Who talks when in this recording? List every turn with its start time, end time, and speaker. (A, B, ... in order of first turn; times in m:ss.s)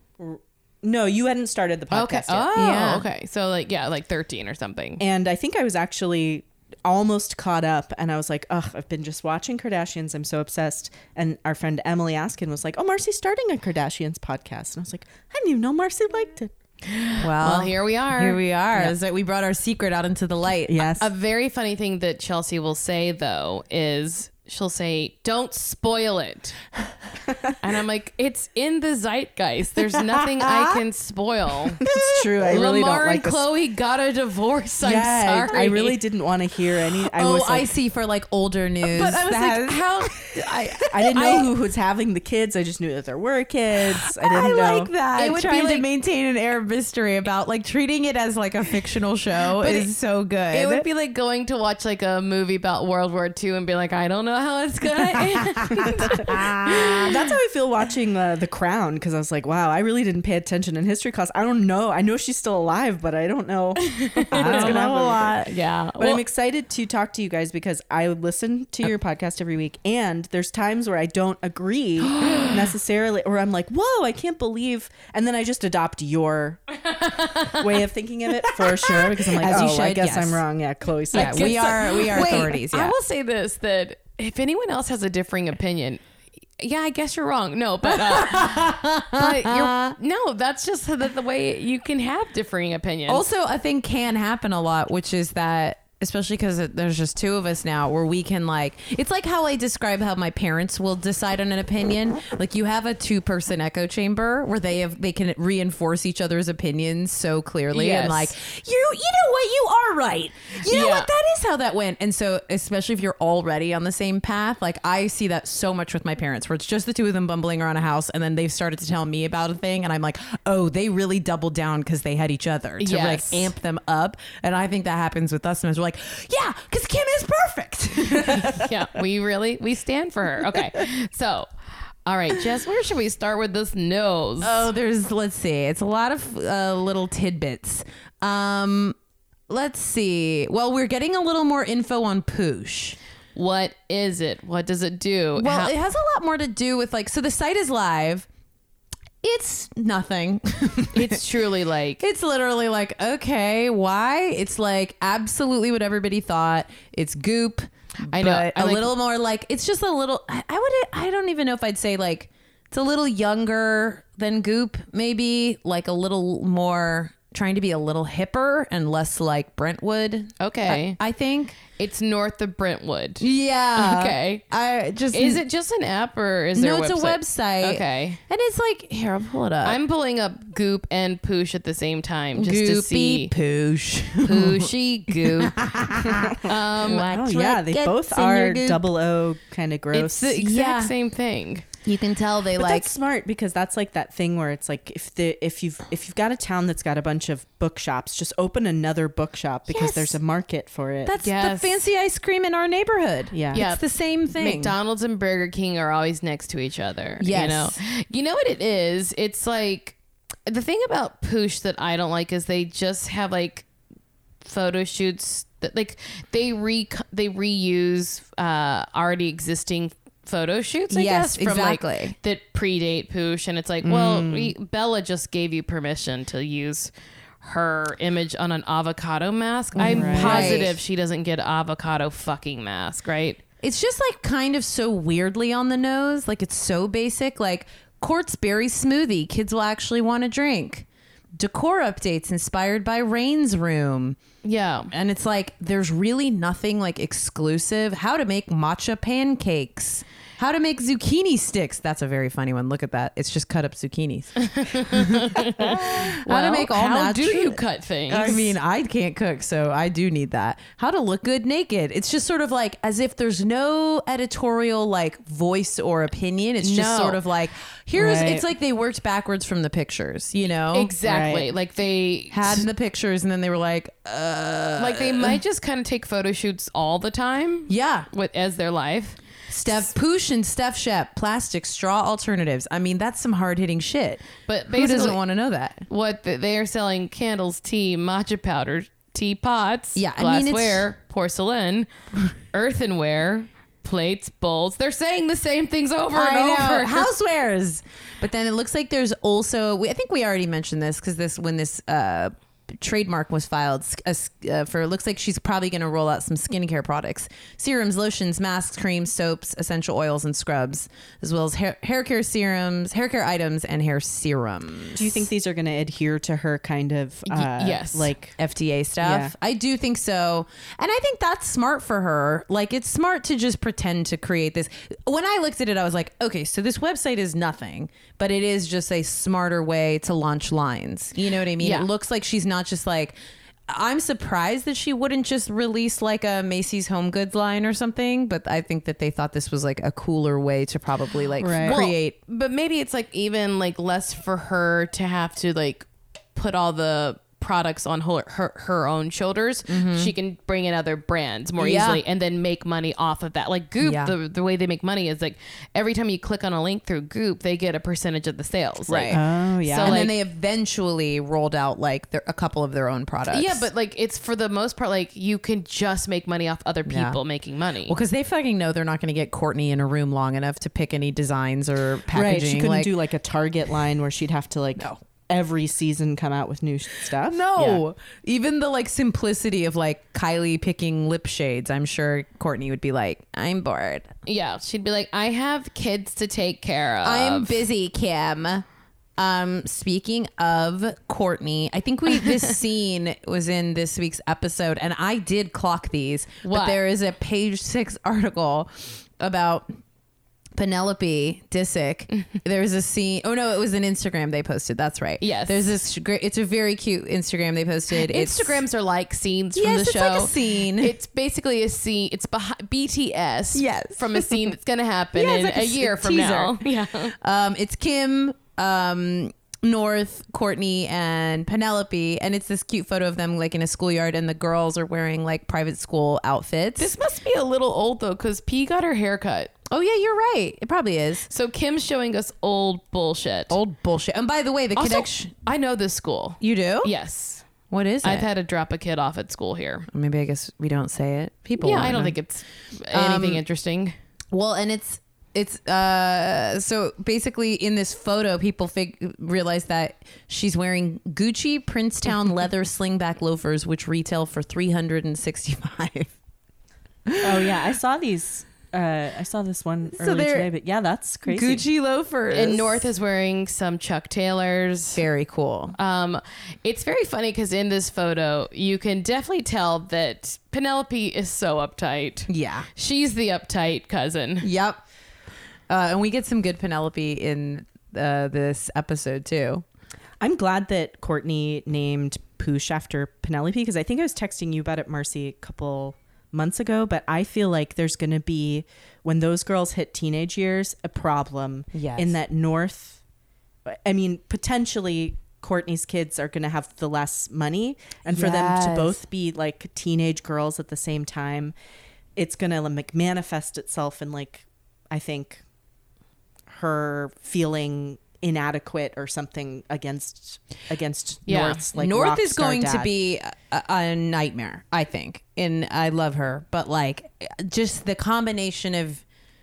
0:00.2-0:02.5 A
0:01.9-0:05.0 B
0:02.5-0:03.1 C
0:05.0-0:16.5 A
0:16.8-0:18.9 B
0:17.2-0:20.9 C
0:20.7-0:21.1 A
0:21.0-0:26.6 B
0:27.6-0:31.8 B
0:31.8-0:33.4 A
0:31.8-0:32.3 C
0:32.4-0:36.0 B
0:34.8-0:37.7 A
0:37.1-0:41.5 C
0:38.9-0:41.4 B
0:40.9-0:44.9 A
0:44.0-0:50.8 C
0:45.2-0:45.8 B
0:49.6-0:49.9 B
0:50.5-0:57.1 B
0:55.1-0:57.1 C
0:56.0-1:05.4 A
1:03.8-1:06.2 B
1:04.3-1:05.5 C
1:06.0-1:22.1 A
1:12.1-1:12.5 C
1:16.9-1:17.6 B
1:18.8-1:20.4 C
1:21.1-1:22.9 C
1:21.1-1:26.0 B
1:26.6-1:33.2 B
1:27.8-1:30.0 C
1:33.1-2:08.7 C
1:47.7-1:48.3 B
1:50.6-1:51.1 B
2:02.8-2:03.5 B
2:08.2-2:11.5 B
2:12.0-2:14.6 B
2:14.4-2:19.0 C
2:19.5-2:23.0 C
2:23.3-2:25.7 B
2:25.4-2:28.3 C
2:29.2-2:31.2 C
2:30.9-2:32.0 B
2:32.0-2:51.6 C
2:38.1-2:38.9 B
2:50.4-2:51.0 B
2:51.7-2:54.4 B
2:53.2-2:55.4 C
2:55.1-2:58.2 B
2:56.5-2:59.8 C
2:59.6-3:03.3 B
3:02.3-3:08.8 C
3:04.2-3:05.6 B
3:06.1-3:10.4 A
3:06.4-3:07.1 B
3:09.9-3:11.6 B
3:10.3-3:10.9 C
3:11.8-3:12.9 C
3:12.6-3:21.1 A
3:19.7-3:20.2 C
3:21.0-3:24.7 C
3:21.2-3:21.8 B
3:23.3-3:23.6 A
3:23.5-3:33.6 B
3:27.2-3:27.8 C
3:34.4-3:53.4 B
3:40.9-3:42.2 C
3:43.9-3:44.3 C
3:44.1-3:44.4 A
3:49.8-3:50.8 C
3:49.8-3:50.6 A
3:53.6-4:04.2 C
4:04.4-4:04.9 B
4:04.9-4:30.9 C
4:14.4-4:18.5 B
4:26.6-4:27.2 B
4:27.9-4:28.4 A
4:30.7-4:32.7 B
4:31.0-4:31.5 A
4:32.3-4:35.4 C
4:34.8-4:39.2 B
4:37.7-4:38.1 C
4:39.5-4:45.8 C
4:44.4-4:45.2 B
4:45.9-4:51.9 B
4:49.9-4:50.8 C
4:52.5-4:57.1 B
4:56.1-5:15.2 C
5:15.0-5:18.4 A
5:17.3-5:18.1 B
5:18.4-5:33.1 C
5:19.0-5:19.3 A
5:31.6-5:31.9 B
5:33.7-5:42.2 C
5:41.4-5:41.9 A
5:41.6-6:00.1 B
5:49.7-5:50.1 C
5:51.6-5:52.0 C
5:53.8-5:54.1 C
5:58.9-5:59.2 C
5:59.1-6:00.0 A
5:59.8-6:03.6 C
6:03.3-6:08.0 B
6:06.8-6:07.2 C
6:07.9-6:12.9 C
6:12.1-6:17.8 A
6:17.2-6:24.1 C
6:24.2-6:27.6 B
6:27.0-6:28.6 C
6:29.2-6:39.7 C
6:36.4-6:36.8 B
6:40.5-6:48.6 C
6:45.2-6:45.7 B
6:47.9-6:57.1 B
6:49.5-6:50.9 C
6:53.5-6:54.5 C
6:55.1-6:56.6 C
6:57.1-7:06.9 C
7:06.8-7:09.5 B
7:09.7-7:11.3 C
7:11.3-7:13.6 B
7:13.5-7:15.3 C
7:14.7-7:17.4 B
7:16.4-7:16.9 C
7:17.7-7:18.3 C
7:18.0-7:19.9 B
7:19.9-7:22.2 C
7:21.6-7:23.9 B
7:22.9-7:23.4 C
7:24.3-7:36.1 C
7:37.1-7:37.5 C
7:37.2-7:41.6 A
7:39.9-7:40.5 C
7:41.3-7:42.8 C
7:42.3-7:45.0 B
7:44.9-7:45.8 C
7:45.7-7:54.5 B
7:52.3-7:52.7 C
7:54.4-7:54.8 C
7:55.7-7:59.6 C
8:00.2-8:13.0 A
8:11.7-8:12.2 C
8:13.6-8:21.5 A
8:18.1-8:19.0 C
8:22.2-8:25.4 A
8:26.5-8:32.9 A
8:31.3-8:31.6 B
8:31.7-8:39.0 C